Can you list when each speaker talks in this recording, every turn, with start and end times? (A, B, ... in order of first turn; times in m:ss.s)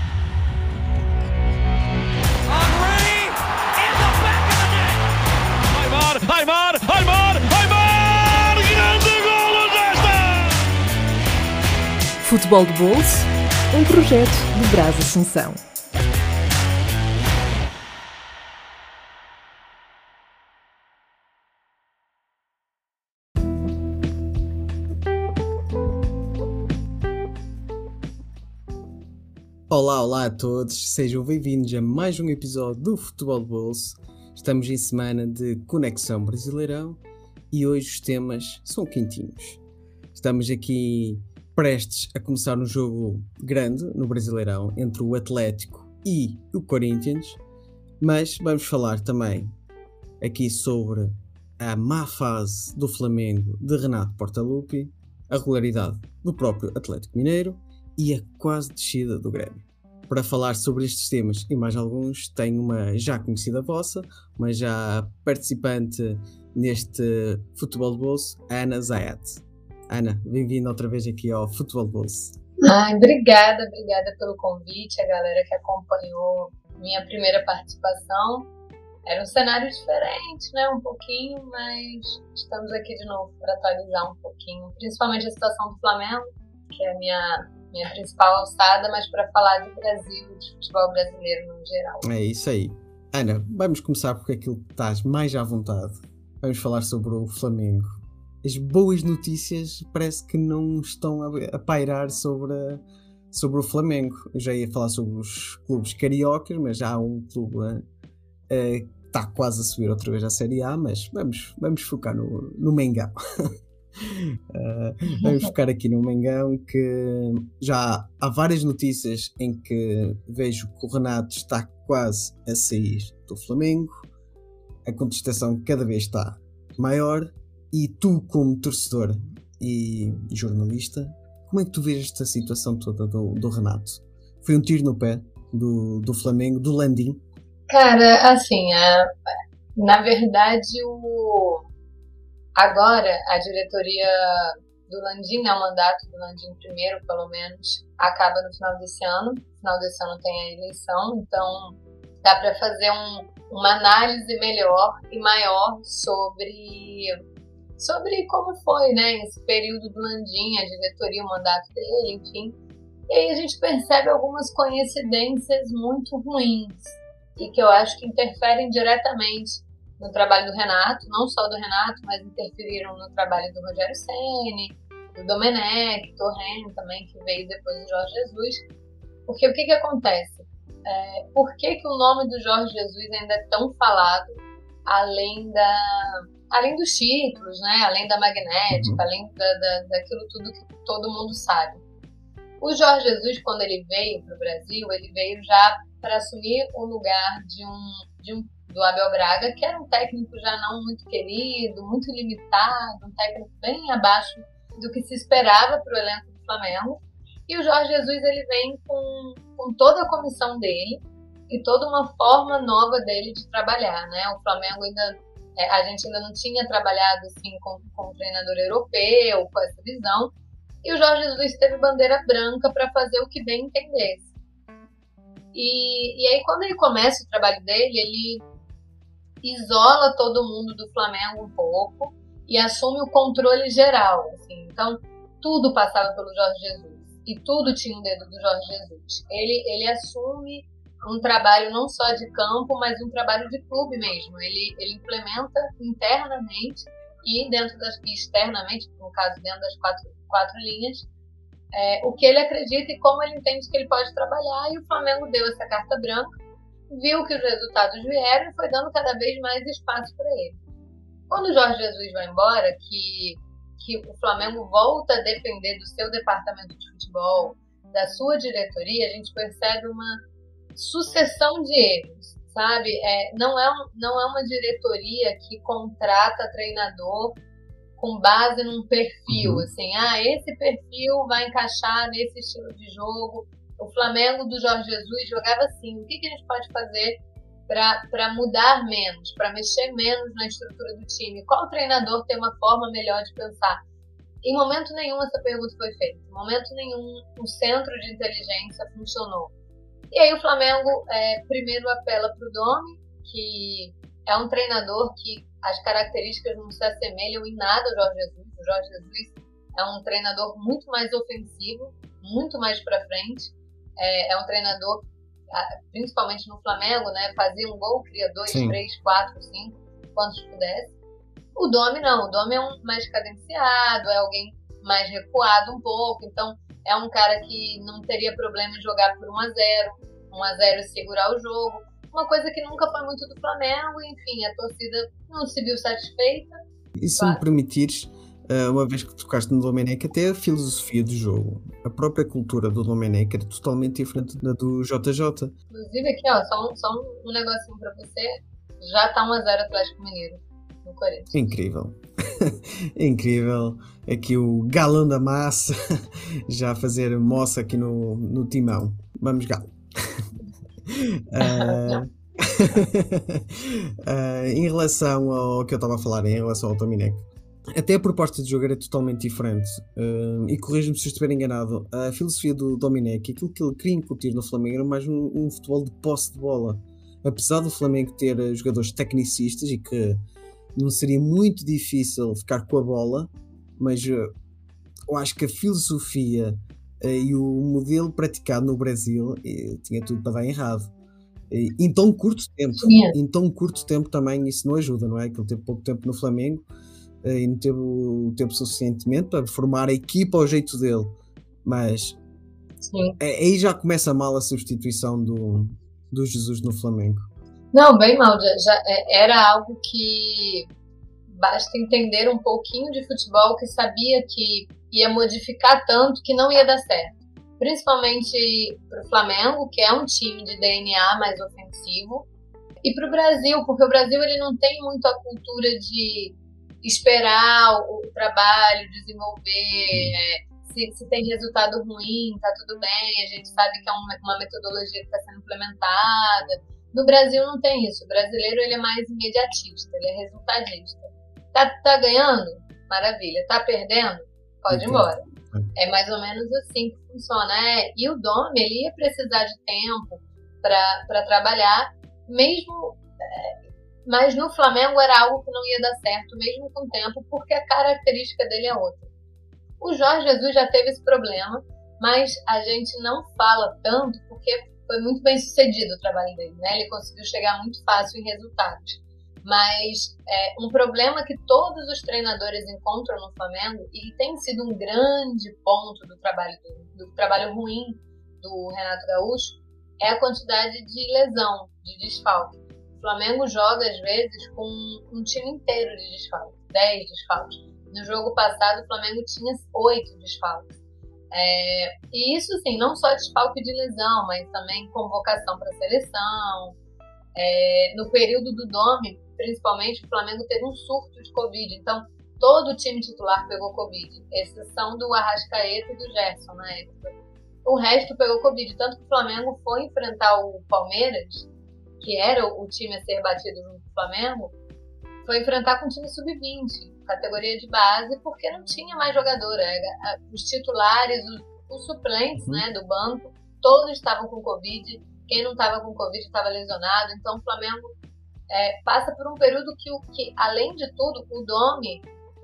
0:02.5-0:04.7 A
0:05.7-0:10.6 A
0:12.2-0:15.6 B
0:29.7-0:39.6 C
0:40.2-0:47.4 C
0:48.0-0:49.5 C
0:50.2-1:12.4 C
1:12.6-1:18.5 D
1:19.1-1:32.1 D
1:32.0-1:47.8 C
1:48.5-2:04.1 C
1:55.1-1:55.5 D
2:04.8-2:17.2 C
2:17.7-2:21.6 D
2:22.6-2:37.1 D
2:37.8-2:42.6 D
2:43.1-2:58.7 D
2:59.3-3:11.8 D
3:08.7-3:09.0 C
3:12.6-3:44.3 D
3:45.5-3:48.4 D
3:49.4-4:11.0 D
4:11.7-4:16.4 D
4:16.9-4:20.6 D
4:21.3-4:30.2 D
4:30.8-4:37.4 D
4:38.0-4:53.8 D
4:39.3-4:39.7 C
4:54.4-4:59.5 D
5:00.1-5:21.0 D
5:18.5-5:18.8 C
5:21.6-5:36.6 D
5:37.0-5:45.5 C
5:37.2-5:37.4 D
5:45.7-5:51.4 D
5:51.3-6:00.3 C
6:00.9-6:07.2 C
6:01.4-6:02.0 D
6:07.8-6:20.2 C
6:20.8-6:24.3 C
6:25.1-6:30.9 C
6:31.5-6:36.6 C
6:32.8-6:33.2 D
6:37.2-6:41.1 C
6:41.6-6:42.2 C
6:42.9-6:43.2 D
6:43.2-6:47.3 C
6:47.7-6:50.7 D
6:51.3-7:02.3 D
7:02.8-7:25.2 D
7:24.7-7:25.7 C
7:25.8-7:39.1 D
7:39.8-8:10.8 D
8:11.3-8:16.8 D
8:17.4-8:27.1 D
8:27.6-8:31.5 D
8:32.0-8:34.5 D
8:35.2-8:47.9 D
8:42.4-8:42.6 C
8:48.5-8:52.0 D